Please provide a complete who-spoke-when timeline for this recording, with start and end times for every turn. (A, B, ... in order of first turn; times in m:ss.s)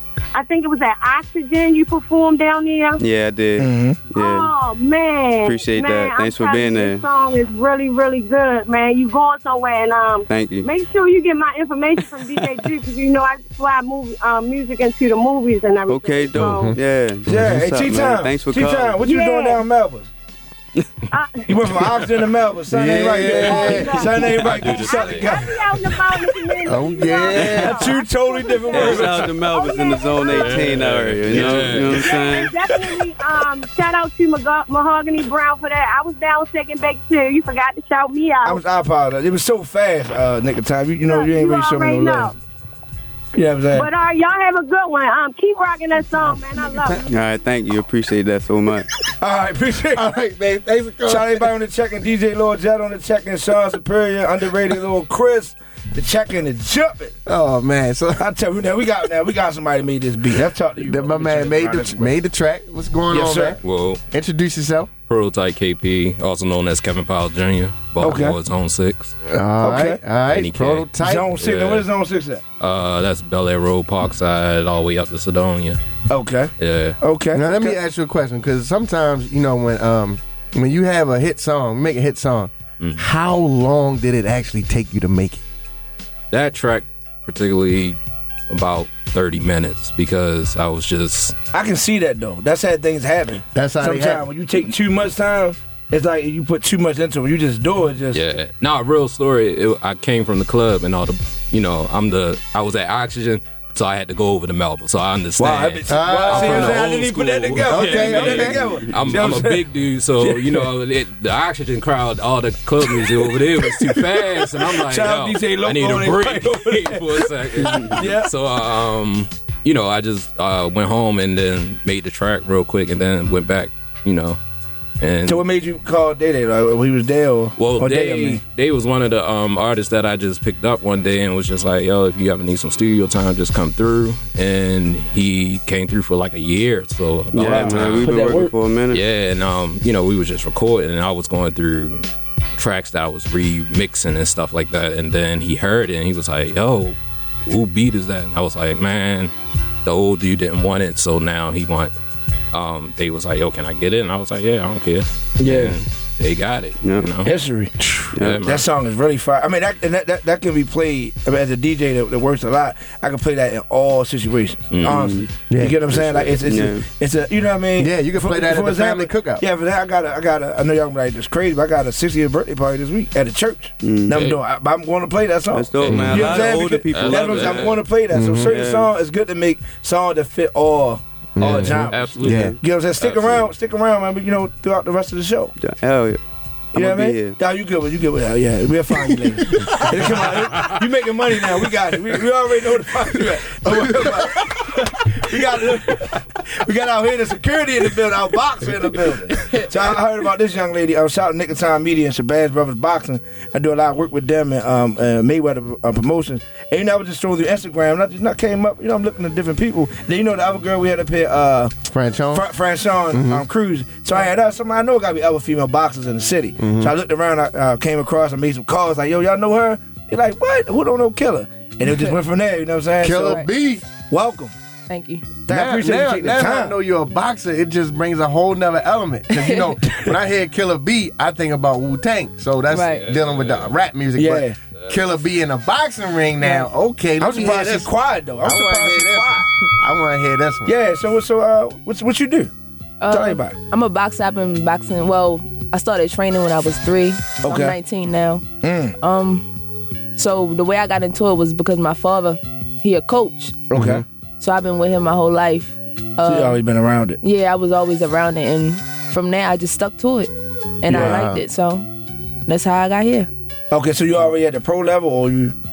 0:00.3-0:03.0 A
0:03.0-0:04.5 B
0:03.6-0:04.0 C
0:04.1-0:16.7 A
0:05.4-0:07.0 B
0:10.3-0:10.7 B
0:15.9-0:19.0 B
0:16.3-0:17.5 D
0:17.3-0:20.1 C
0:19.0-0:19.6 A
0:21.1-0:22.0 A
0:21.5-0:25.7 C
0:22.7-0:24.0 D
0:23.2-0:30.7 A
0:24.4-0:25.4 E
0:26.6-0:27.8 D
0:27.3-0:27.7 B
0:27.4-0:29.3 C
0:28.7-0:32.5 B
0:28.8-0:29.2 E
0:30.2-0:32.9 E
0:32.1-0:38.6 A
0:38.4-0:42.3 C
0:41.0-0:42.3 A
0:43.3-0:43.9 C
0:43.7-0:47.0 A
0:47.1-0:48.9 B
0:49.2-0:50.0 C
0:49.9-0:51.5 D
0:51.0-0:57.2 C
0:57.2-0:58.3 D
0:58.2-1:02.1 C
1:00.8-1:03.6 D
1:03.1-1:03.6 C
1:03.6-1:04.0 E
1:04.1-1:04.9 D
1:05.1-1:09.2 E
1:08.0-1:08.4 C
1:09.2-1:11.3 D
1:09.6-1:10.0 C
1:10.3-1:11.9 E
1:11.0-1:12.4 C
1:12.6-1:15.8 E
1:16.1-1:17.8 C
1:16.6-1:17.0 E
1:17.3-1:25.4 D
1:26.3-1:28.0 E
1:28.5-1:31.4 E
1:31.5-1:38.2 C
1:33.5-1:34.2 D
1:38.1-2:04.4 E
1:45.4-1:49.6 C
1:45.9-1:46.9 D
1:47.6-1:48.7 D
1:50.2-1:50.7 C
1:53.6-1:58.3 C
2:05.0-2:05.4 E
2:05.2-2:08.4 C
2:07.6-2:18.3 E
2:17.3-2:19.0 B
2:17.3-2:18.5 C
2:18.9-2:22.0 E
2:22.6-2:29.3 E
2:29.8-2:31.9 E
2:32.5-2:38.6 E
2:35.4-2:35.8 C
2:36.8-2:37.1 B
2:37.2-2:37.7 C
2:38.1-2:38.4 B
2:38.4-3:05.5 C
2:44.7-2:45.1 E
2:45.5-2:45.8 D
2:45.9-2:46.8 B
2:47.8-2:49.4 D
2:53.8-2:54.3 B
2:55.5-2:57.8 B
2:55.8-2:57.8 E
2:55.9-2:56.1 D
2:58.1-2:58.5 D
2:58.4-2:58.9 B
3:01.4-3:02.6 D
3:01.4-3:03.4 E
3:05.6-3:06.2 B
3:06.7-3:07.4 B
3:06.7-3:31.7 C
3:09.6-3:10.0 D
3:13.6-3:14.2 D
3:31.9-3:32.5 D
3:32.3-3:43.4 C
3:33.1-3:33.4 D
3:36.6-3:36.9 D
3:43.0-3:43.8 D
3:44.1-3:44.5 C
3:44.9-3:45.4 F
3:45.4-3:46.7 C
3:45.5-3:57.9 D
3:49.3-3:49.7 F
3:52.7-3:53.1 F
3:52.8-3:53.8 E
3:54.2-3:54.6 C
3:54.8-3:55.1 E
3:56.4-3:56.7 F
3:57.2-3:59.5 C
3:58.4-4:00.7 D
4:00.6-4:02.5 C
4:03.0-4:08.4 F
4:03.1-4:03.6 C
4:07.4-4:07.8 C
4:08.6-4:09.0 C
4:09.0-4:09.5 F
4:10.2-4:13.7 F
4:13.7-4:14.0 C
4:13.7-4:14.0 D
4:14.4-4:16.6 F
4:16.2-4:17.2 C
4:17.2-4:20.3 F
4:20.8-4:21.8 F
4:20.9-4:21.2 C
4:20.9-4:21.4 D
4:22.5-4:23.3 F
4:23.7-4:25.5 C